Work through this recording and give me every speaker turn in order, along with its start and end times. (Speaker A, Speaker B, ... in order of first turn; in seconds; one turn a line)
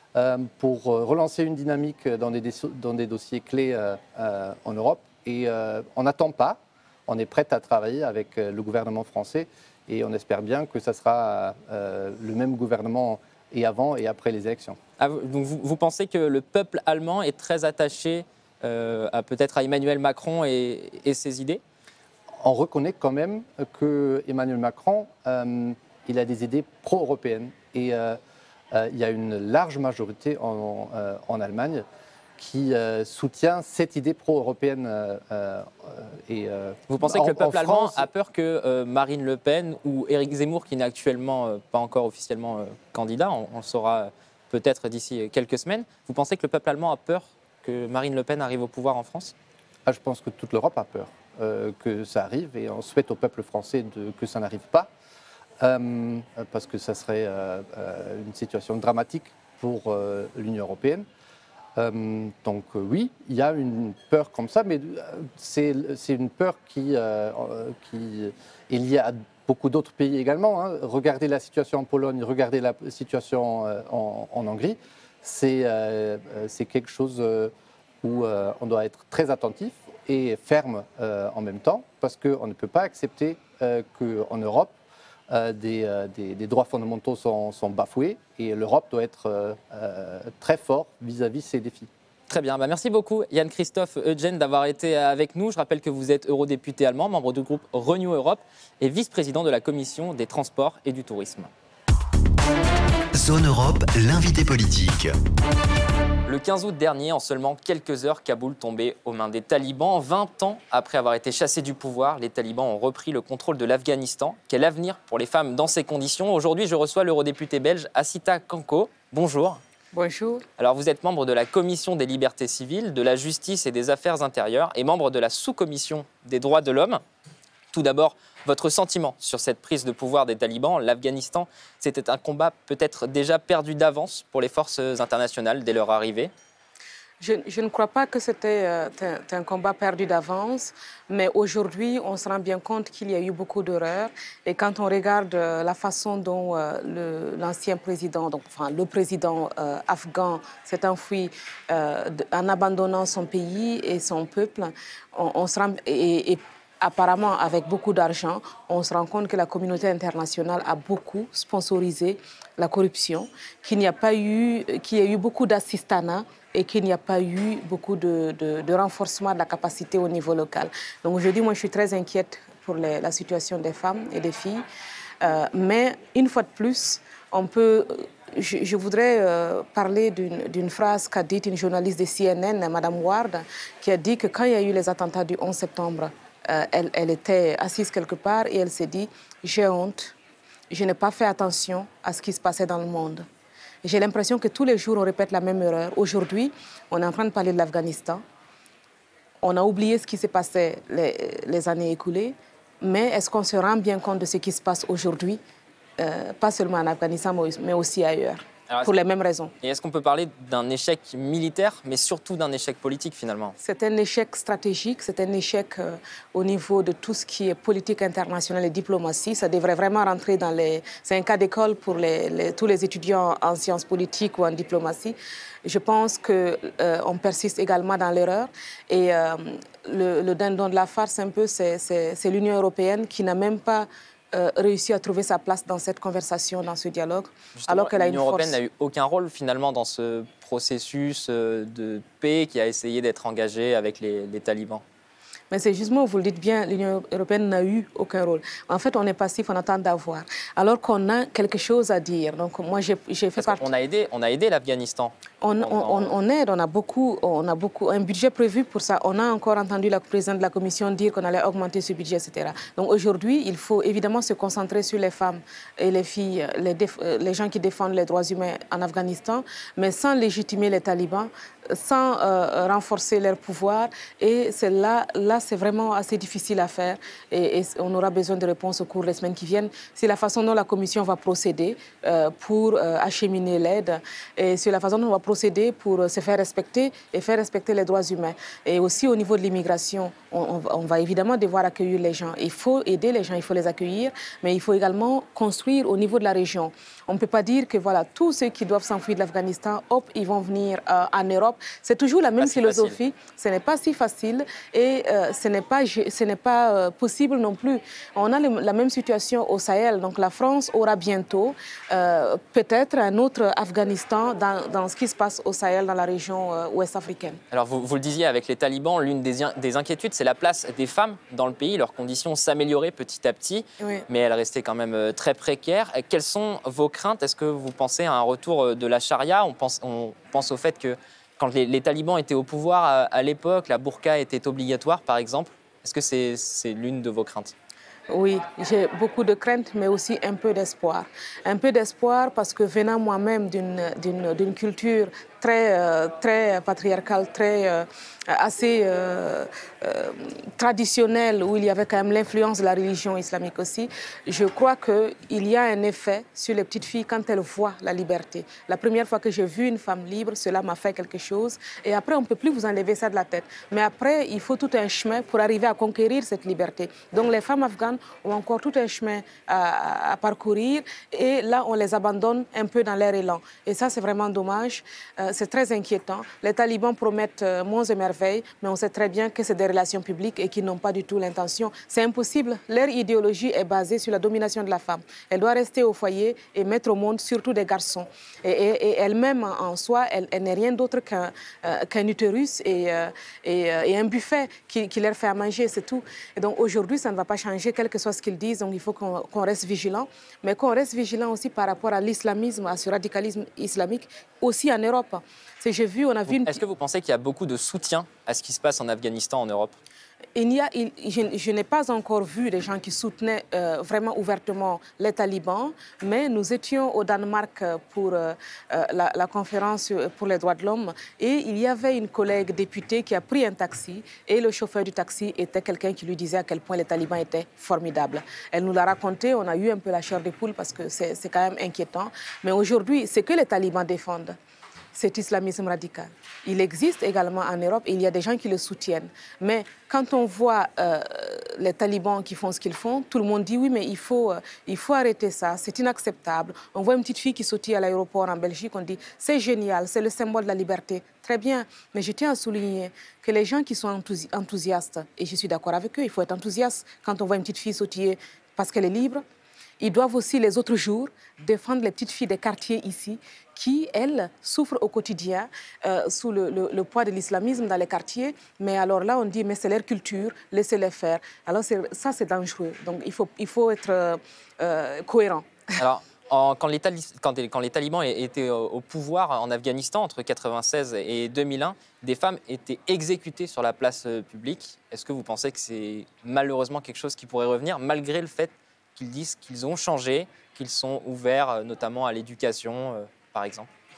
Speaker A: 0.1-14.8
Speaker B: 15.0-21.6
Speaker A: 22.4-28.2
Speaker A: 28.7-31.9
Speaker A: 32.4-38.1
Speaker B: 36.9-49.3
Speaker A: 49.9-54.9
Speaker A: 55.6-61.0
Speaker A: 61.8-84.7
Speaker A: 85.3-91.9
Speaker B: 92.3-101.5
Speaker C: 103.1-105.2
Speaker B: 106.3-119.6
Speaker D: 119.9-120.4
Speaker B: 120.6-127.0
Speaker B: 127.7-136.3
Speaker D: 137.2-174.7
Speaker D: 175.2-190.1
Speaker D: 190.7-193.3
Speaker D: 193.8-198.2
Speaker D: 199.4-205.4
Speaker D: 206.0-209.5
Speaker B: 209.6-213.6
Speaker D: 213.6-238.6
Speaker B: 237.6-244.8
Speaker D: 245.5-253.7
Speaker B: 253.4-256.1
Speaker D: 255.4-317.4
Speaker B: 302.4-303.0
Speaker B: 317.5-337.6
Speaker D: 323.8-324.1
Speaker D: 338.1-406.6
Speaker B: 406.3-409.8
Speaker D: 410.4-434.4
Speaker D: 434.9-459.2
Speaker D: 459.8-475.5
Speaker B: 475.8-493.7